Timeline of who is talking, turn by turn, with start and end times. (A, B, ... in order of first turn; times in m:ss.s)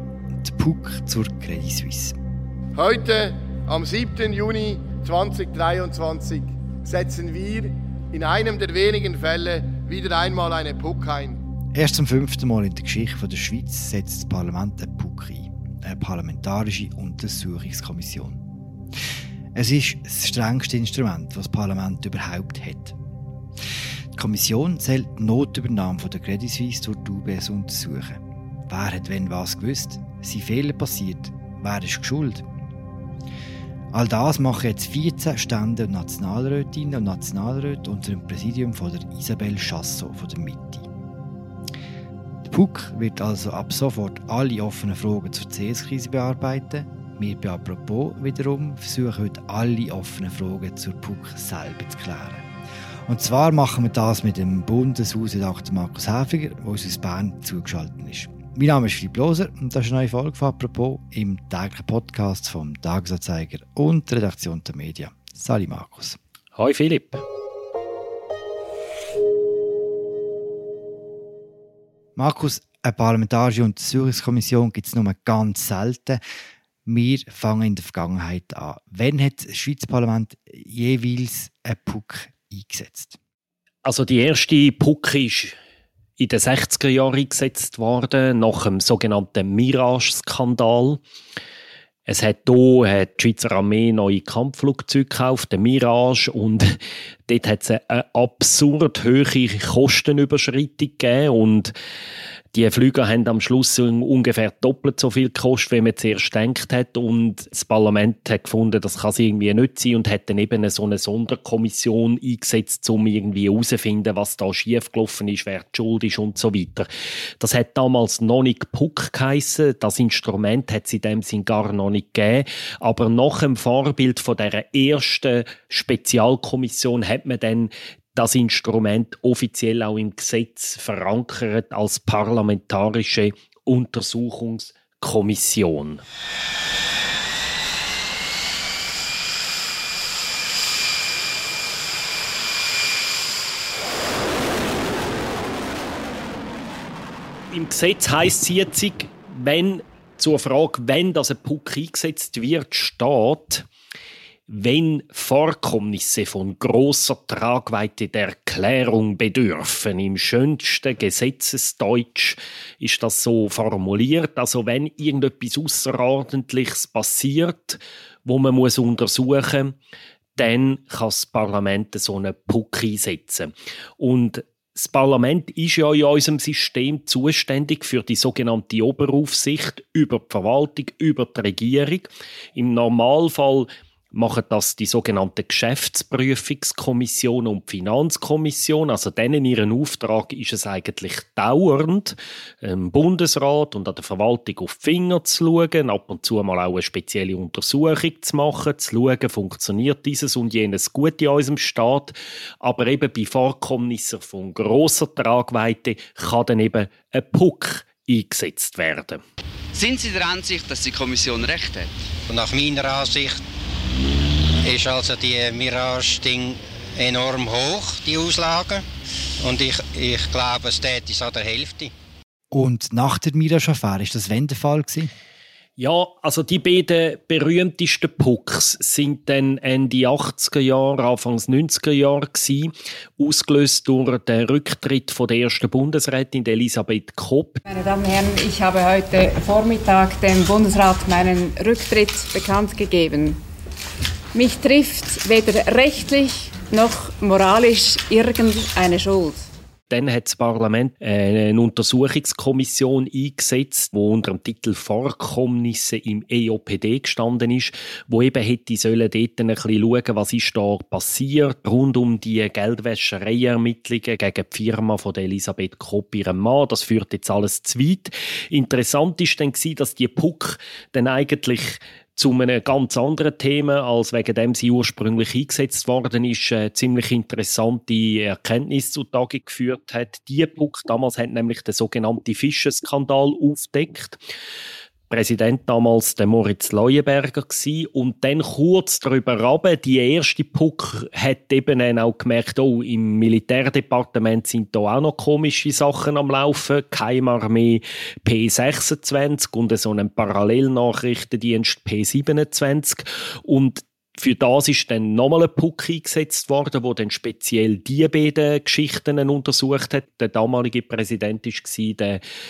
0:00.3-0:02.2 A
0:02.8-0:11.4 B
0:11.7-0:18.4 A
0:19.6-0:23.0 A
0:24.2-0:32.4 A
0:33.9-0:40.9 A
0:42.4-0:52.4 A
0:53.1-1:06.2 A
1:06.6-1:07.2 C
1:12.2-1:16.2 A
1:16.9-1:23.2 A
1:23.8-1:25.6 C
1:26.2-1:31.0 C
1:32.1-1:41.7 C
1:42.5-1:56.9 C
1:57.4-2:16.0 C
2:27.5-2:33.7 C
2:34.5-2:49.8 C
2:50.4-3:29.2 C
3:29.7-3:31.9 D
3:32.3-3:33.4 E
3:34.6-3:38.8 E
3:39.4-3:41.9 E
3:42.5-3:45.1 A
3:45.8-3:57.6 C
3:57.7-4:03.4 F
4:04.3-4:09.5 F
4:09.9-4:44.2 C
4:45.1-5:12.2 C